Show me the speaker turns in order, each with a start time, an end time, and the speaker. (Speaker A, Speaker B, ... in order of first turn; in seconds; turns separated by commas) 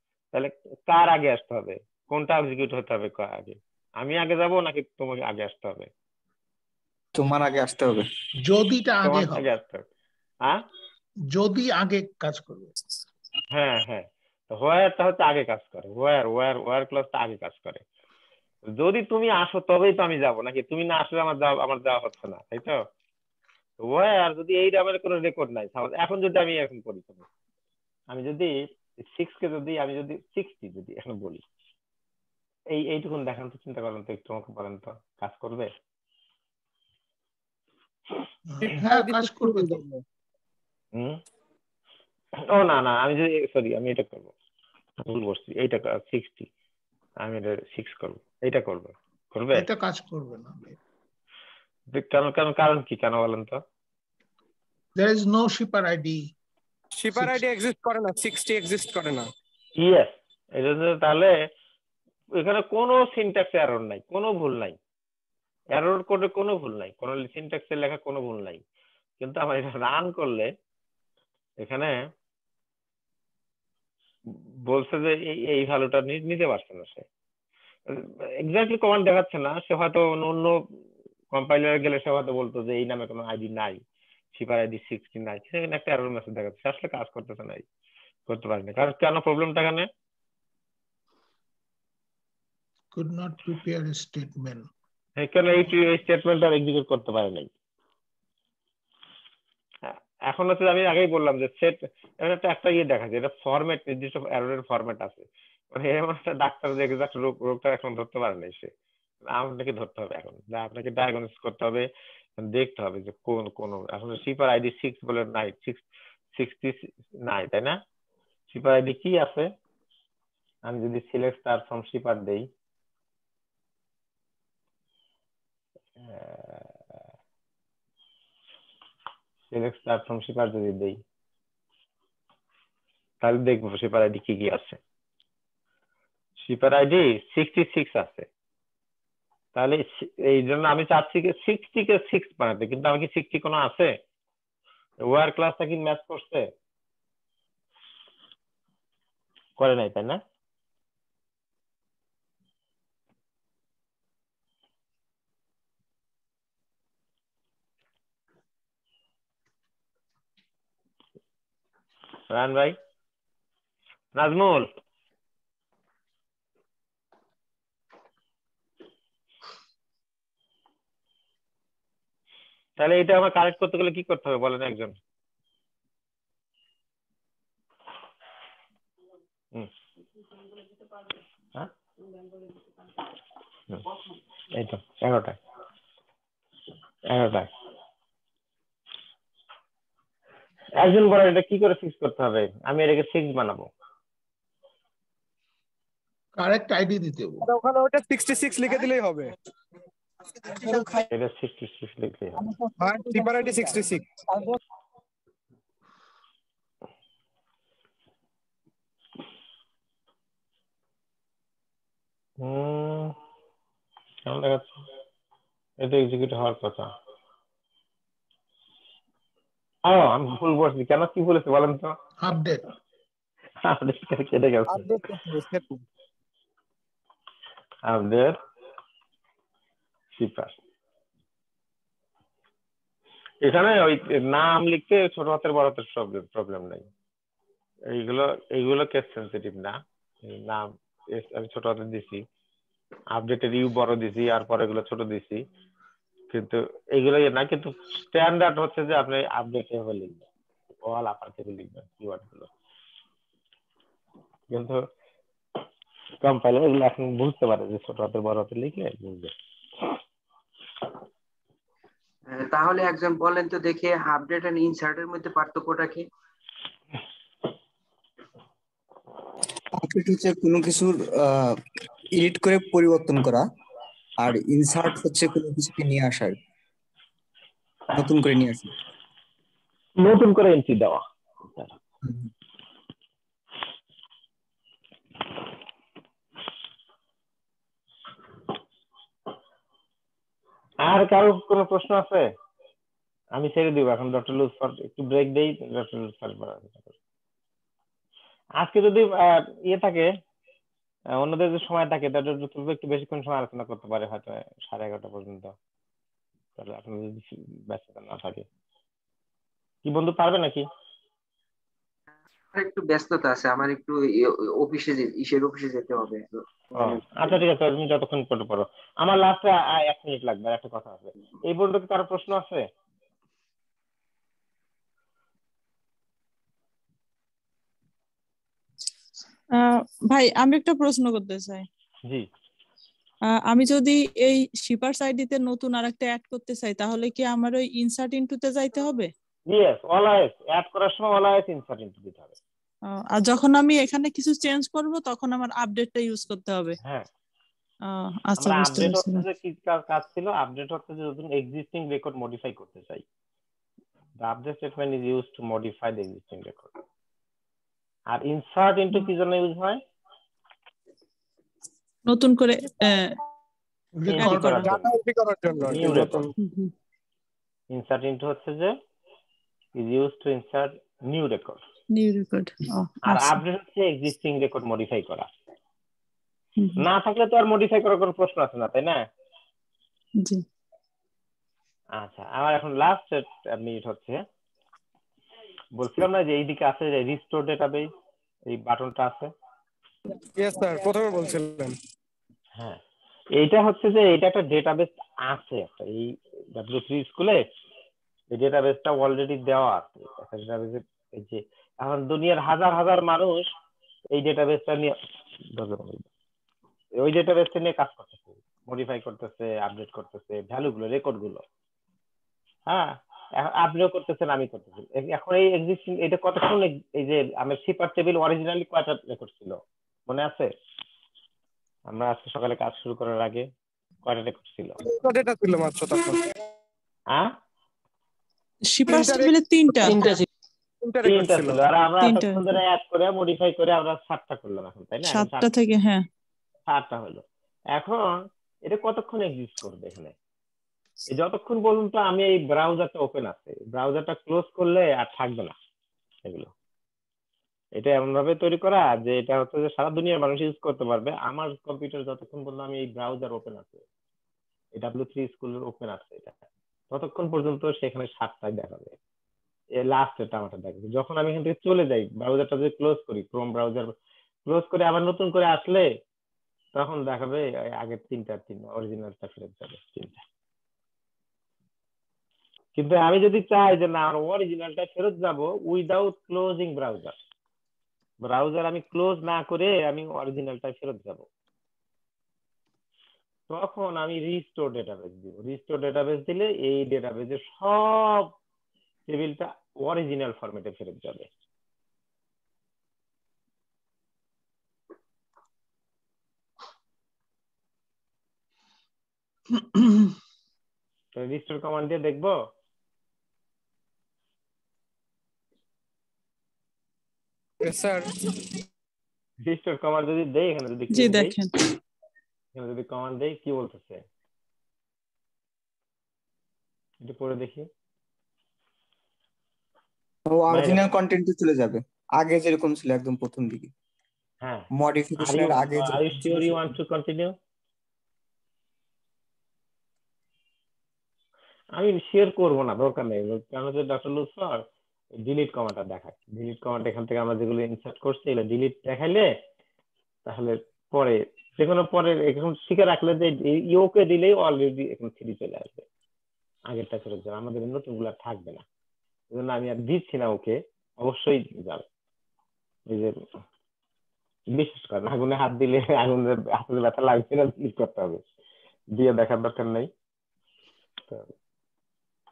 Speaker A: 0.3-5.9, Speaker B: 7.2-8.1, Speaker C: 8.4-9.5, Speaker A: 9.0-9.8, Speaker C: 11.3-12.7, Speaker A: 13.5-17.8, Speaker A: 18.7-22.8, Speaker A: 23.8-27.2, Speaker A: 28.1-31.4, Speaker A: 32.7-35.7, Speaker C: 38.5-39.8, Speaker D: 38.6-40.0, Speaker A: 40.9-41.2, Speaker A: 42.5-44.3, Speaker A: 45.0-46.5, Speaker A: 47.2-49.7, Speaker C: 49.5-50.8, Speaker A: 51.9-53.6, Speaker C: 55.0-56.2, Speaker D: 57.0-59.2, Speaker C: 57.2-57.4, Speaker A: 59.8-61.3, Speaker A: 62.4-64.8, Speaker A: 65.7-68.6, Speaker A: 69.2-70.5, Speaker A: 71.6-71.9, Speaker A: 74.3-77.0, Speaker A: 77.9-80.6, Speaker A: 81.3-83.8, Speaker A: 84.3-87.7, Speaker A: 88.3-89.9, Speaker C: 92.9-94.7, Speaker A: 95.2-97.5, Speaker A: 99.8-108.7, Speaker A: 109.3-111.9, Speaker A: 112.4-115.8, Speaker A: 116.3-117.8, Speaker A: 118.5-119.5, Speaker A: 120.7-122.5, Speaker A: 126.0-126.8, Speaker A: 129.5-131.0, Speaker A: 133.2-134.8, Speaker A: 136.4-138.3, Speaker A: 139.6-143.9, Speaker A: 145.0-146.5, Speaker A: 149.6-150.2, Speaker A: 162.3-162.8, Speaker A: 164.2-164.7, Speaker A: 172.8-174.9, Speaker A: 184.5-185.4, Speaker A: 187.1-187.5, Speaker A: 190.8-193.7, Speaker C: 196.4-197.4, Speaker D: 197.4-199.3, Speaker D: 200.5-201.1, Speaker A: 201.1-202.5, Speaker D: 202.5-204.6, Speaker A: 212.4-213.2, Speaker A: 214.3-214.7, Speaker A: 215.8-216.9, Speaker A: 219.9-221.9, Speaker C: 222.2-222.6, Speaker A: 223.6-225.0, Speaker D: 224.7-225.8, Speaker A: 227.9-228.3, Speaker A: 230.2-230.5, Speaker A: 233.4-236.9, Speaker A: 237.9-242.2, Speaker A: 243.1-245.4, Speaker A: 246.3-250.2, Speaker A: 250.8-252.5, Speaker A: 254.5-254.8, Speaker A: 256.2-259.3, Speaker E: 262.3-266.0, Speaker B: 269.7-271.6, Speaker B: 272.1-273.4, Speaker B: 274.2-276.4, Speaker B: 277.9-278.7, Speaker A: 280.0-281.0, Speaker A: 290.8-292.2, Speaker A: 293.4-296.9, Speaker A: 298.6-300.1, Speaker A: 301.1-305.5, Speaker A: 306.6-308.4, Speaker A: 309.9-310.6, Speaker E: 312.5-317.4, Speaker A: 316.8-322.6, Speaker F: 329.6-331.7, Speaker F: 333.3-339.1, Speaker A: 339.5-342.4, Speaker F: 342.9-346.8, Speaker F: 347.9-349.3, Speaker A: 348.4-353.0, Speaker A: 354.2-356.7, Speaker A: 358.1-359.8, Speaker F: 362.1-363.2, Speaker C: 364.0-364.6, Speaker A: 364.1-364.9, Speaker F: 364.2-364.8, Speaker D: 364.6-366.3, Speaker A: 365.6-366.3, Speaker F: 366.4-366.7, Speaker A: 367.7-368.7, Speaker A: 369.8-371.6, Speaker F: 371.9-373.4, Speaker A: 373.1-375.3, Speaker F: 376.6-376.9, Speaker A: 376.8-379.0, Speaker A: 382.0-384.2, Speaker A: 385.8-387.9, Speaker A: 388.5-389.3, Speaker D: 390.4-391.8, Speaker A: 393.4-397.4, Speaker A: 398.3-403.4, Speaker A: 404.1-405.0, Speaker A: 405.6-406.1, Speaker A: 407.0-411.4, Speaker A: 412.7-419.6, Speaker A: 420.1-420.5, Speaker A: 421.9-423.5, Speaker A: 424.1-424.8, Speaker D: 424.8-426.3, Speaker F: 428.7-430.2, Speaker D: 428.9-430.2, Speaker D: 430.8-431.6, Speaker A: 431.0-435.5, Speaker F: 432.0-432.4, Speaker F: 435.0-436.1, Speaker A: 436.7-437.2, Speaker A: 437.7-438.0, Speaker A: 438.7-440.1, Speaker A: 441.1-445.6, Speaker A: 446.3-446.5, Speaker A: 447.8-453.8, Speaker A: 454.8-456.3, Speaker A: 456.9-458.9, Speaker A: 459.8-463.9, Speaker A: 464.5-465.9, Speaker A: 466.8-470.2, Speaker A: 472.8-477.1, Speaker A: 478.2-481.3, Speaker A: 483.5-488.3, Speaker A: 489.1-491.3, Speaker C: 499.5-500.2, Speaker A: 501.2-502.4, Speaker D: 507.6-508.1, Speaker A: 509.4-511.4, Speaker F: 510.9-511.6, Speaker A: 512.5-514.0, Speaker A: 517.0-517.7, Speaker B: 520.3-523.7, Speaker A: 520.5-520.9, Speaker A: 524.4-527.3, Speaker B: 524.8-526.6, Speaker A: 531.8-534.6, Speaker A: 535.2-539.3, Speaker A: 540.3-545.9, Speaker A: 546.7-548.6, Speaker A: 549.3-551.9, Speaker A: 554.5-558.2, Speaker A: 559.0-559.9